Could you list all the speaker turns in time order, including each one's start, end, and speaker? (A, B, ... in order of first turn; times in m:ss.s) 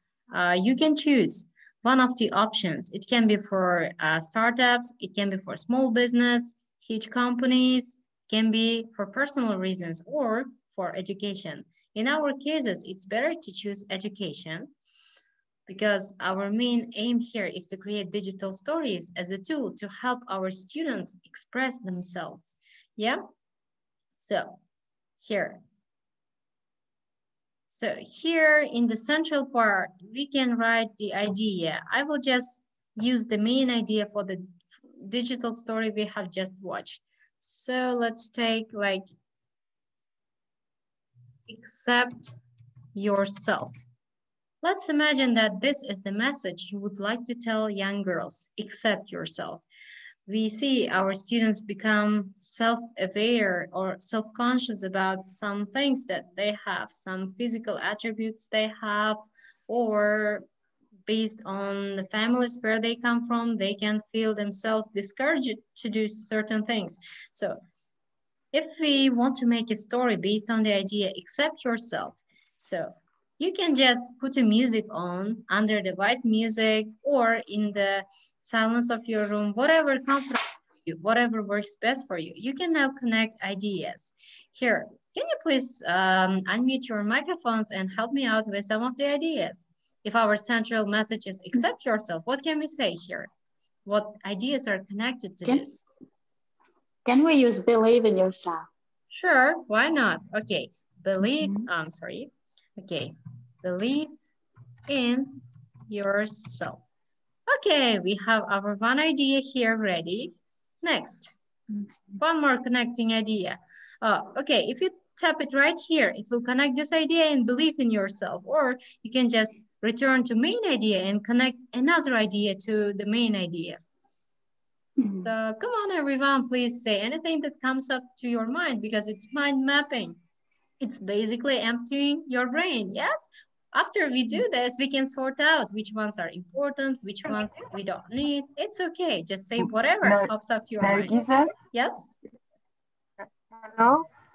0:00.3-0:14.7 A
0:15.7-0:23.2 A
0:24.2-0:24.6 A
0:25.2-0:25.6 A
0:27.7-0:34.4 A
0:35.0-0:39.0 A
0:41.5-0:42.4 A
0:42.9-0:43.7 A
0:44.6-0:49.6 A
0:50.3-1:00.4 A
1:01.1-1:07.6 A
1:08.5-1:33.3 A
1:33.8-1:35.8 A
1:37.0-1:38.7 B
1:39.1-1:44.1 A
1:41.2-1:41.6 B
1:44.9-1:46.8 A
1:47.5-1:51.4 A
1:52.2-2:03.8 A
2:05.0-2:05.3 B
2:05.0-2:10.2 A
2:10.8-2:21.1 A
2:19.6-2:21.5 C
2:21.7-2:22.1 A
2:23.6-2:24.1 C